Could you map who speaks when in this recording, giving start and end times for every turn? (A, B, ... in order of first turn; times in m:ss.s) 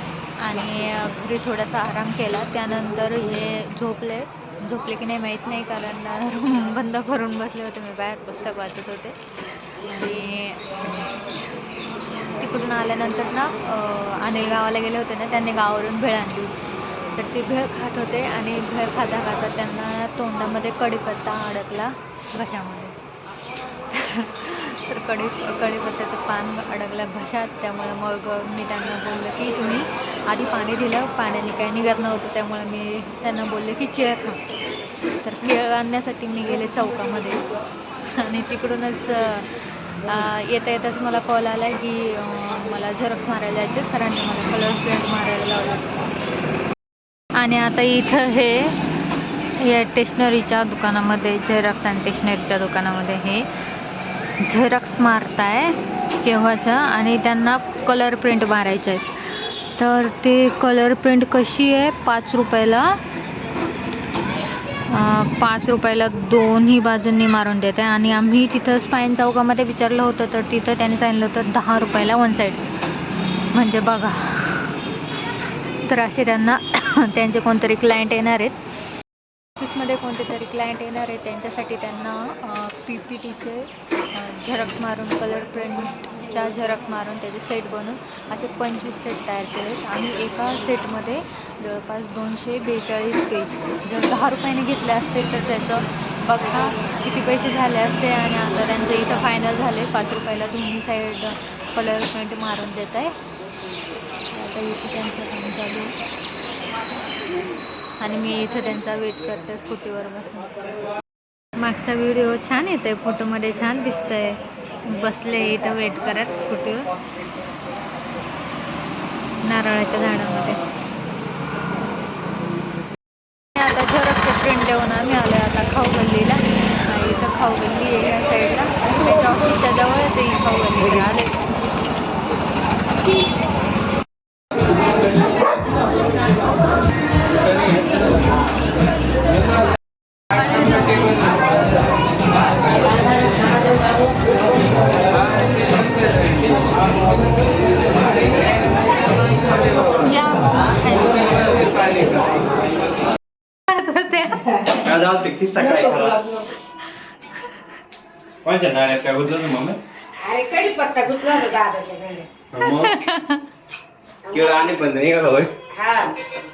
0:00.4-0:09.2 A
0:09.8-0:11.2 A
0:12.4-0:16.6 A
0:17.1-0:22.9 A
0:23.9-0:34.4 A
0:35.2-0:37.4 A
0:38.1-0:46.0 A
0:47.4-0:48.8 A
0:49.6-0:53.5 A
0:54.4-0:59.1 A
0:59.7-1:03.0 A
1:04.9-1:12.6 A
1:13.5-1:14.8 A
1:15.8-1:18.6 A
1:19.6-1:43.1 A
1:44.3-1:45.9 A
1:48.0-1:50.6 A
1:51.6-1:56.9 A
1:59.4-2:00.6 A
2:03.6-2:11.4 A
2:20.3-2:21.3 A
2:25.1-2:26.5 B
2:29.9-2:32.2 A
2:33.7-2:34.6 A
2:34.7-2:36.3 B
2:35.8-2:36.4 C
2:38.4-2:39.8 B
2:40.2-2:42.3 C
2:42.5-2:43.0 B
2:42.5-2:43.4 A
2:44.3-2:44.6 C
2:44.3-2:45.6 B
2:45.7-2:46.2 C